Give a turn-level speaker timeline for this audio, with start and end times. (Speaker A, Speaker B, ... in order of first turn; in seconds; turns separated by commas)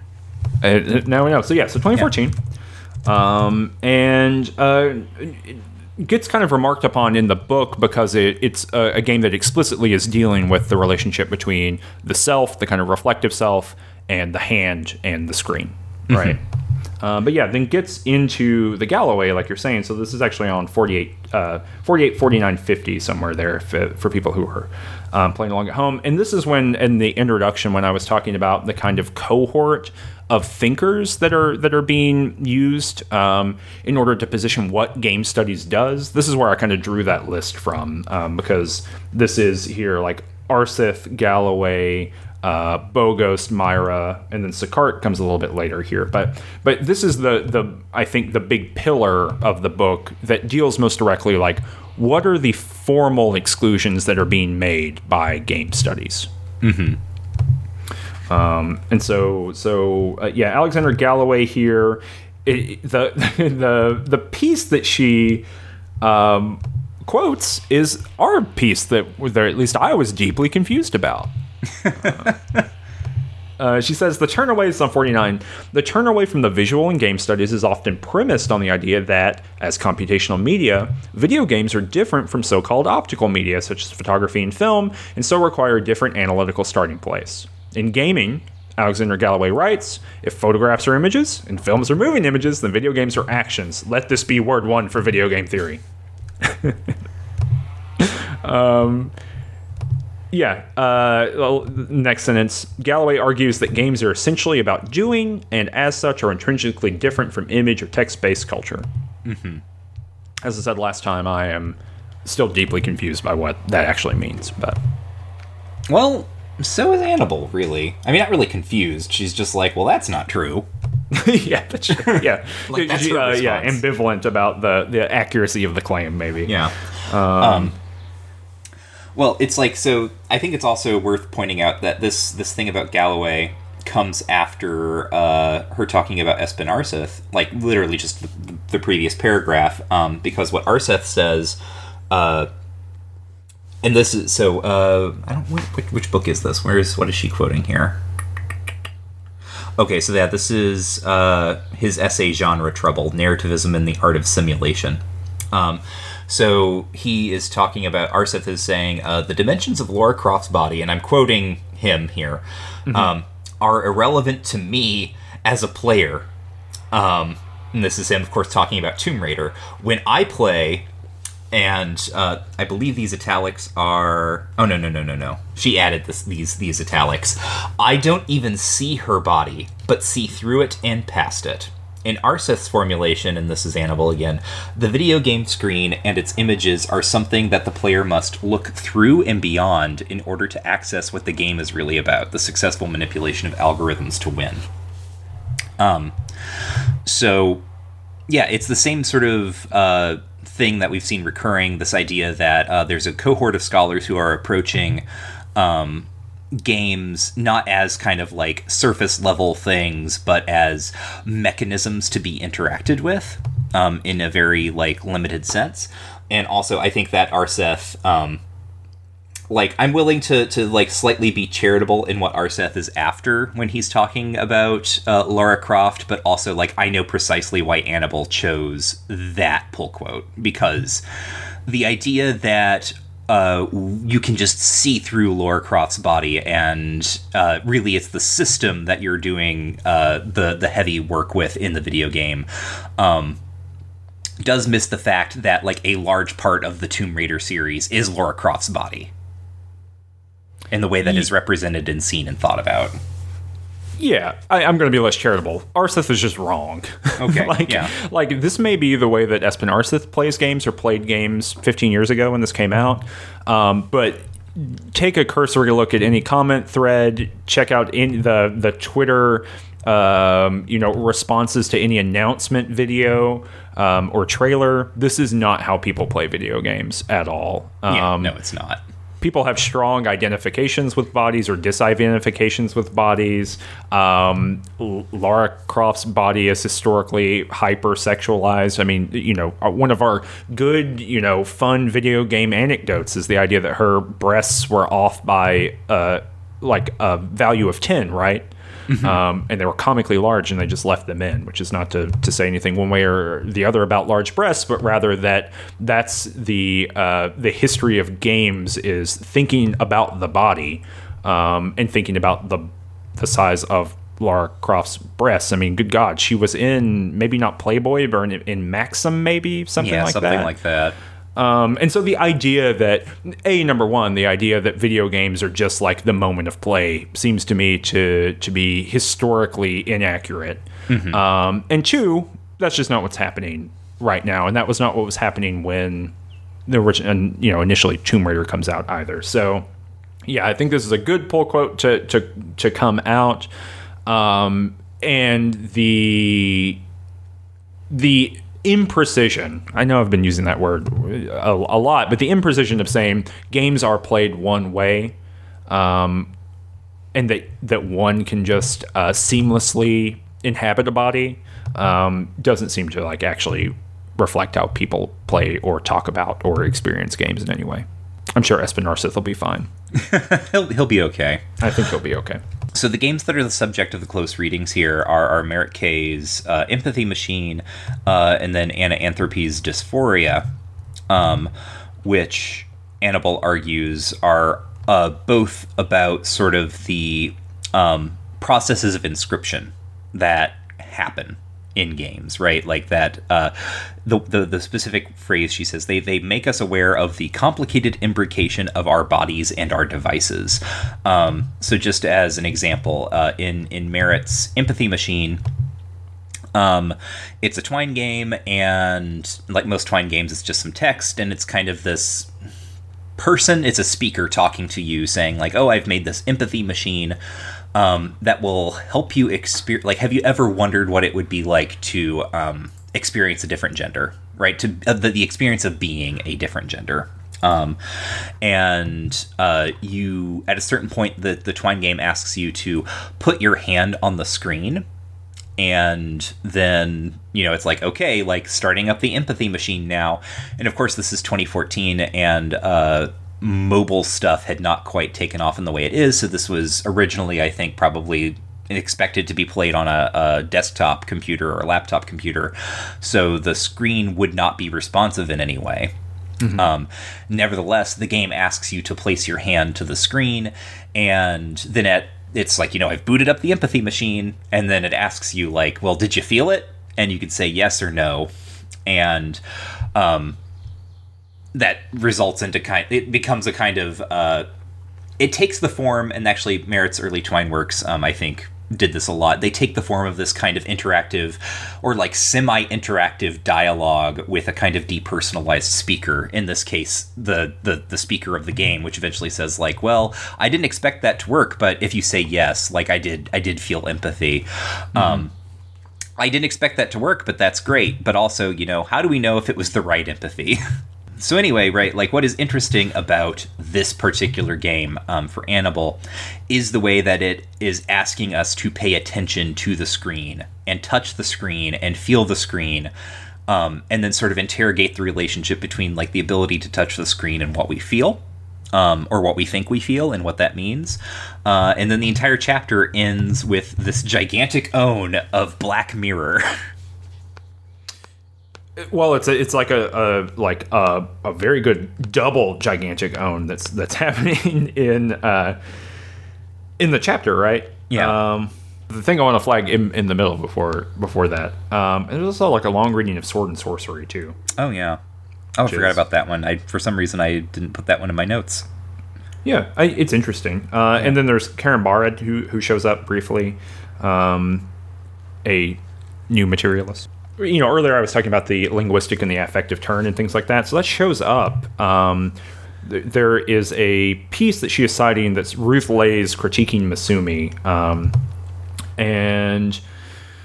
Speaker A: 0.6-2.4, Speaker A: 3.0-16.4, Speaker B: 16.1-16.4, Speaker A: 17.0-56.3, Speaker B: 56.6-57.0, Speaker A: 58.3-65.5, Speaker A: 66.0-72.4, Speaker B: 72.0-72.3, Speaker A: 73.6-95.8, Speaker A: 96.4-96.9, Speaker A: 98.0-99.1, Speaker A: 100.3-108.9, Speaker B: 109.2-109.6, Speaker A: 110.4-114.8, Speaker B: 115.9-120.7, Speaker A: 121.1-127.8, Speaker B: 121.9-123.8, Speaker B: 126.5-126.8, Speaker B: 127.4-127.7, Speaker B: 129.1-141.6, Speaker B: 142.1-142.5, Speaker B: 143.8-148.0, Speaker B: 149.8-166.3, Speaker B: 166.9-170.9, Speaker B: 171.5-194.6, Speaker B: 195.8-197.6, Speaker B: 198.3-205.0, Speaker B: 205.6-218.4, Speaker B: 219.5-231.0, Speaker B: 231.7-243.4, Speaker B: 244.4-249.1, Speaker B: 250.7-253.0, Speaker A: 254.0-278.3, Speaker B: 257.2-257.9, Speaker B: 277.9-278.8, Speaker A: 279.2-320.5, Speaker B: 298.9-299.2, Speaker B: 319.8-321.0, Speaker A: 321.4-336.1, Speaker B: 330.9-331.2, Speaker A: 336.7-339.7, Speaker A: 340.2-343.5, Speaker A: 344.1-346.8, Speaker A: 347.9-355.1, Speaker A: 355.7-356.3, Speaker A: 357.1-369.7, Speaker B: 369.9-371.4, Speaker A: 371.6-372.4, Speaker B: 372.7-380.5, Speaker B: 381.1-381.5, Speaker B: 382.0-405.4, Speaker B: 406.5-412.3, Speaker B: 413.2-417.2, Speaker B: 417.7-427.8, Speaker B: 428.4-434.9, Speaker B: 435.6-455.9, Speaker A: 456.4-456.7, Speaker B: 456.5-468.3, Speaker B: 468.9-469.4, Speaker B: 469.9-470.4, Speaker B: 471.5-474.5, Speaker B: 475.2-495.3, Speaker A: 494.9-495.2, Speaker B: 496.2-500.6, Speaker B: 501.2-512.9, Speaker B: 513.5-518.2, Speaker B: 518.7-526.5, Speaker A: 528.8-535.6, Speaker A: 536.8-544.4, Speaker B: 537.9-538.2, Speaker B: 544.5-545.0, Speaker B: 545.6-548.7, Speaker A: 545.6-546.0, Speaker A: 549.4-554.7, Speaker A: 555.4-568.1, Speaker A: 569.0-569.8